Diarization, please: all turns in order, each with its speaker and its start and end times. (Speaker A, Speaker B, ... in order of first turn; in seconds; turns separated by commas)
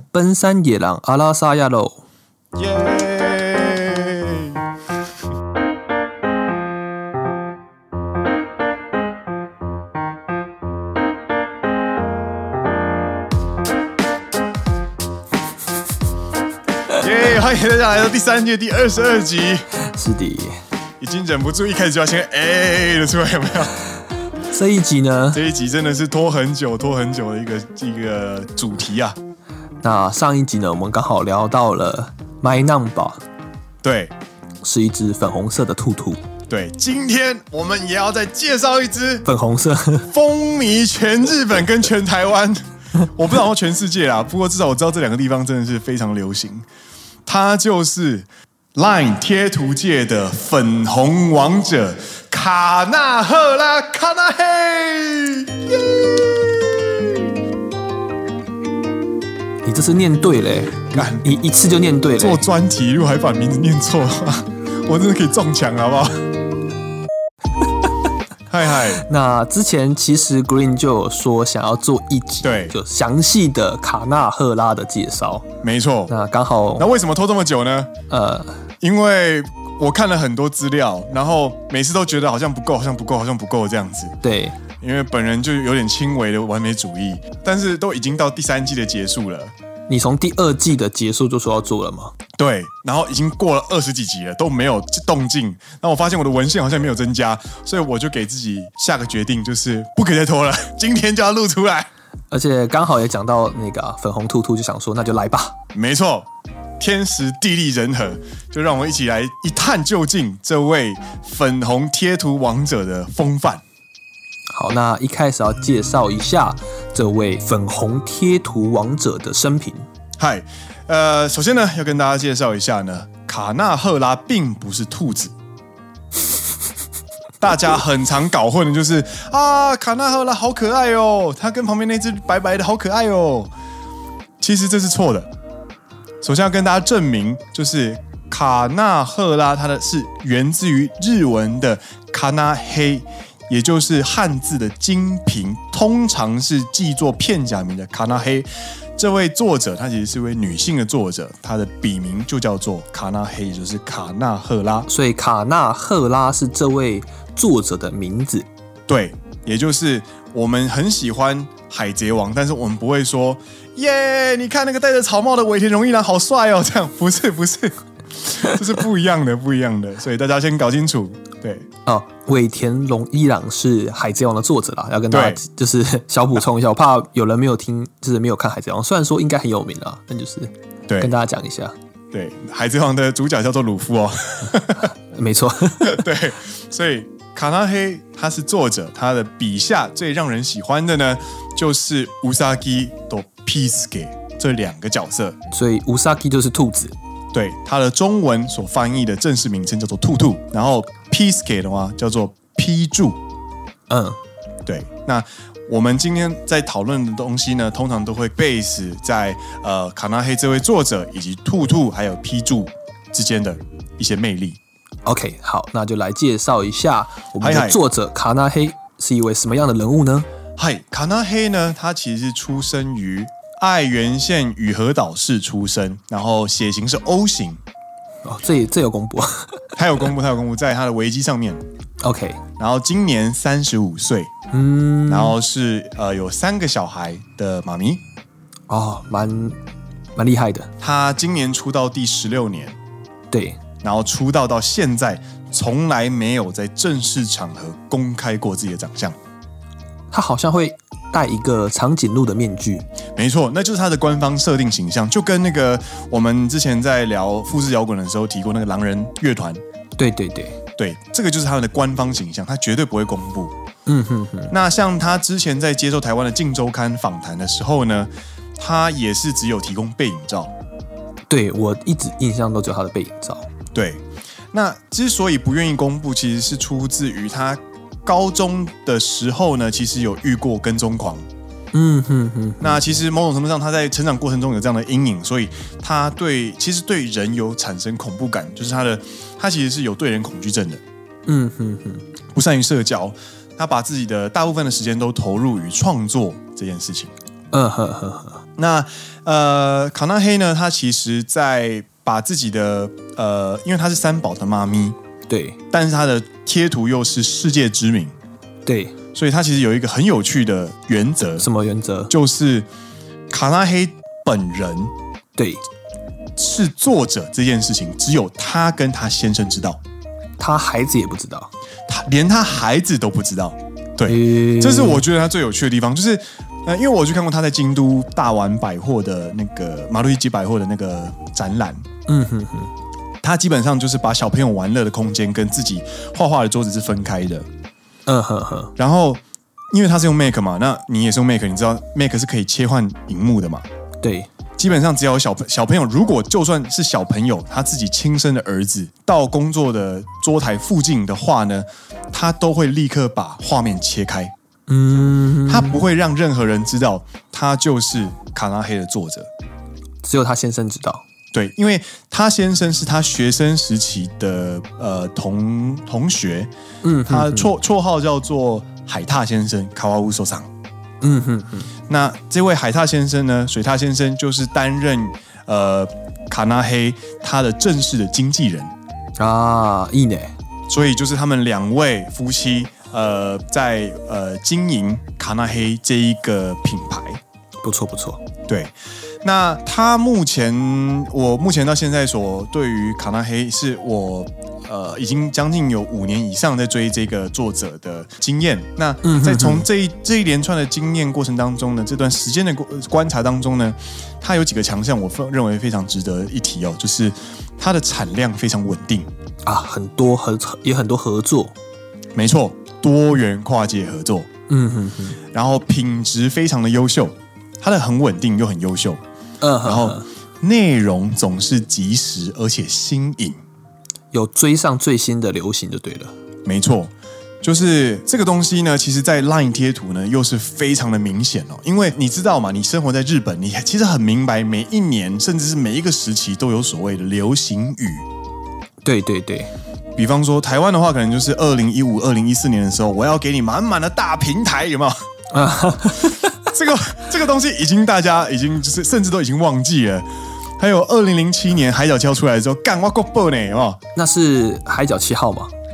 Speaker A: 0.1-2.0, Speaker B: 2.5-4.6, Speaker B: 16.9-19.6, Speaker A: 19.8-20.6, Speaker B: 21.0-23.8, Speaker A: 24.5-25.4, Speaker B: 25.3-29.2, Speaker A: 29.8-33.2, Speaker B: 33.8-34.1, Speaker A: 34.6-36.2, Speaker B: 36.5-39.2, Speaker A: 39.2-40.1, Speaker B: 40.1-46.7, Speaker B: 47.2-57.2, Speaker A: 59.6-62.5, Speaker B: 60.9-61.4, Speaker B: 62.2-66.3, Speaker B: 68.5-69.0, Speaker A: 69.0-75.5, Speaker B: 72.4-72.7, Speaker B: 75.6-76.1, Speaker A: 76.1-76.9, Speaker B: 76.8-77.9, Speaker A: 78.1-78.6, Speaker B: 78.8-84.2, Speaker A: 84.2-84.6, Speaker B: 84.8-89.5, Speaker A: 89.9-92.1, Speaker B: 92.4-101.9, Speaker A: 102.3-105.5, Speaker B: 105.7-106.3, Speaker B: 106.8-113.6, Speaker A: 114.5-119.8, Speaker B: 120.2-125.3, Speaker B: 127.4-133.5, Speaker B: 134.4-135.3, Speaker B: 136.2-154.9, Speaker A: 154.9-158.5, Speaker B: 158.9-171.7, Speaker A: 171.8-181.7, Speaker B: 175.1-175.4, Speaker B: 180.9-181.1, Speaker B: 182.1-184.9, Speaker A: 184.8-186.0, Speaker B: 185.8-195.4, Speaker A: 195.5-196.9, Speaker B: 197.3-203.2, Speaker A: 203.9-204.2, Speaker B: 204.7-214.6, Speaker A: 215.0-220.3, Speaker B: 217.4-217.8, Speaker B: 220.6-227.6, Speaker A: 228.2-229.7, Speaker B: 229.8-231.6, Speaker A: 232.0-232.4, Speaker B: 232.6-234.3, Speaker A: 234.5-235.3, Speaker B: 235.1-238.0, Speaker A: 238.7-239.6, Speaker A: 240.2-240.7, Speaker B: 240.8-242.8, Speaker A: 243.3-243.6, Speaker B: 243.8-249.2, Speaker A: 250.1-252.8, Speaker B: 253.2-259.6, Speaker A: 260.0-260.6, Speaker B: 260.8-263.5, Speaker A: 263.9-264.5, Speaker B: 264.5-270.5, Speaker A: 271.3-273.5, Speaker B: 273.7-281.3, Speaker A: 281.7-282.9, Speaker B: 282.6-290.8, Speaker A: 291.2-292.0, Speaker B: 292.3-297.1, Speaker A: 297.5-298.4, Speaker B: 298.6-305.0, Speaker A: 305.3-305.6, Speaker B: 305.7-308.1, Speaker A: 308.6-308.9, Speaker B: 309.1-311.5, Speaker A: 311.4-312.1, Speaker B: 312.1-312.7, Speaker B: 313.3-314.9, Speaker A: 315.4-315.6, Speaker B: 316.4-319.8, Speaker A: 320.4-321.5, Speaker B: 321.9-331.8, Speaker A: 324.1-325.0, Speaker A: 332.1-332.7, Speaker B: 333.2-337.5, Speaker A: 338.1-338.7, Speaker B: 338.8-339.2, Speaker B: 339.7-343.6, Speaker A: 344.0-344.3, Speaker B: 344.6-354.3, Speaker A: 354.7-355.8, Speaker B: 355.4-359.3, Speaker A: 360.0-361.0, Speaker B: 361.3-366.5, Speaker A: 366.8-367.5, Speaker B: 367.1-370.5, Speaker A: 371.0-371.7, Speaker B: 371.9-378.7, Speaker A: 379.2-380.3, Speaker B: 380.7-387.2, Speaker A: 387.6-388.2, Speaker B: 388.5-409.1, Speaker A: 399.0-399.7, Speaker A: 409.4-411.5, Speaker B: 412.1-414.3, Speaker A: 414.5-415.2, Speaker B: 415.3-419.0, Speaker A: 419.4-420.1, Speaker B: 419.6-423.4, Speaker A: 424.1-426.1, Speaker B: 426.4-438.1, Speaker A: 438.8-439.5, Speaker B: 439.9-444.9, Speaker A: 445.3-446.4, Speaker B: 446.5-450.1, Speaker B: 450.6-453.8, Speaker A: 453.9-455.5